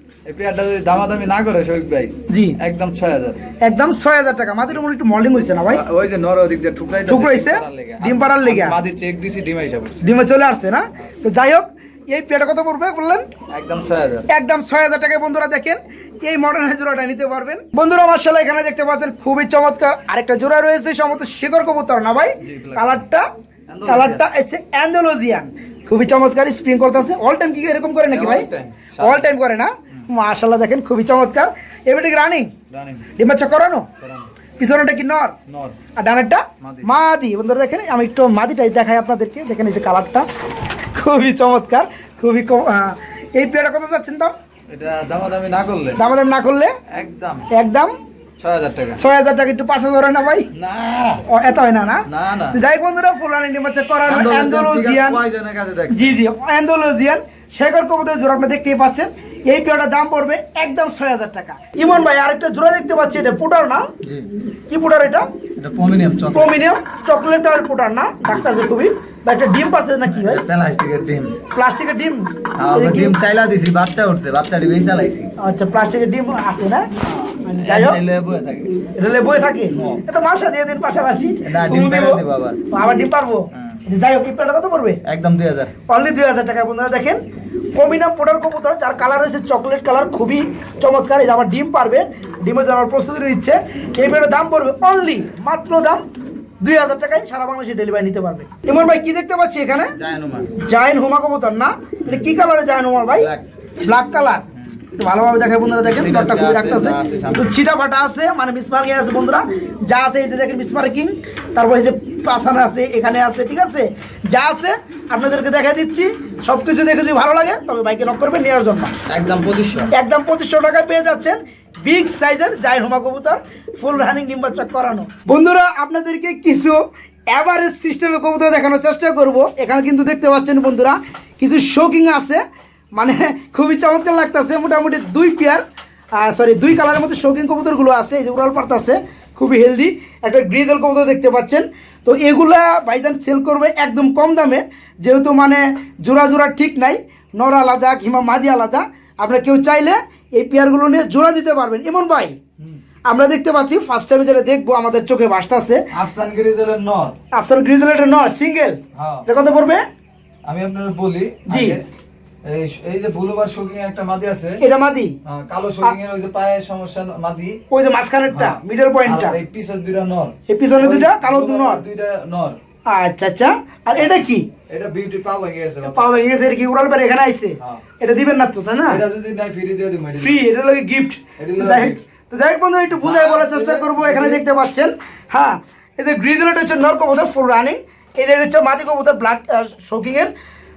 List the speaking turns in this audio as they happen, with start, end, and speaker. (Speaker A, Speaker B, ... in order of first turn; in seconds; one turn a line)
Speaker A: 0.2-3.4
Speaker B: 2.3-2.6
Speaker B: 3.6-5.8
Speaker A: 5.7-10.0
Speaker B: 7.1-8.8
Speaker B: 10.0-13.2
Speaker A: 13.5-14.3
Speaker B: 14.3-23.2
Speaker A: 22.4-23.0
Speaker A: 23.7-24.2
Speaker B: 23.9-28.5
Speaker A: 28.1-29.4
Speaker B: 29.0-32.5
Speaker A: 32.7-33.1
Speaker B: 33.2-33.9
Speaker A: 34.0-34.3
Speaker B: 34.6-35.3
Speaker A: 35.5-35.8
Speaker B: 36.0-40.2
Speaker A: 36.6-36.9
Speaker B: 40.9-44.3
Speaker A: 44.7-46.0
Speaker B: 46.0-46.8
Speaker A: 46.9-47.5
Speaker B: 47.5-47.9
Speaker A: 48.4-49.0
Speaker B: 49.0-50.5
Speaker A: 50.5-51.2
Speaker B: 51.3-55.2
Speaker A: 52.1-52.6
Speaker A: 54.0-56.2
Speaker B: 55.9-63.9
Speaker A: 64.0-64.3
Speaker B: 64.7-65.3
Speaker A: 65.6-66.6
Speaker B: 66.3-70.4
Speaker A: 70.0-71.4
Speaker B: 71.5-73.2
Speaker A: 72.6-75.3
Speaker B: 75.4-76.9
Speaker A: 77.0-78.9
Speaker B: 77.4-78.0
Speaker B: 79.0-85.0
Speaker A: 79.7-80.0
Speaker A: 81.4-82.6
Speaker A: 83.5-83.8
Speaker A: 85.0-85.7
Speaker B: 85.9-87.2
Speaker B: 87.7-96.0
Speaker B: 96.6-99.9
Speaker A: 100.0-100.5
Speaker B: 100.5-103.3
Speaker A: 102.0-102.3
Speaker A: 103.1-103.4
Speaker B: 103.8-104.4
Speaker B: 105.0-118.9
Speaker A: 105.8-107.5
Speaker A: 119.1-119.9
Speaker B: 119.9-126.8
Speaker B: 127.3-132.4
Speaker B: 132.9-135.6
Speaker B: 136.2-152.3
Speaker B: 153.1-155.8
Speaker A: 155.9-157.2
Speaker B: 157.3-159.8
Speaker A: 158.9-159.2
Speaker A: 160.4-161.8
Speaker B: 161.5-161.8
Speaker A: 162.4-164.6
Speaker B: 164.6-165.1
Speaker A: 165.2-167.6
Speaker B: 167.7-169.3
Speaker A: 168.3-172.6
Speaker B: 170.5-171.8
Speaker B: 172.9-174.5
Speaker A: 174.0-176.1
Speaker B: 175.8-179.0
Speaker A: 178.9-180.4
Speaker B: 180.2-190.3
Speaker A: 181.4-182.0
Speaker A: 182.9-184.4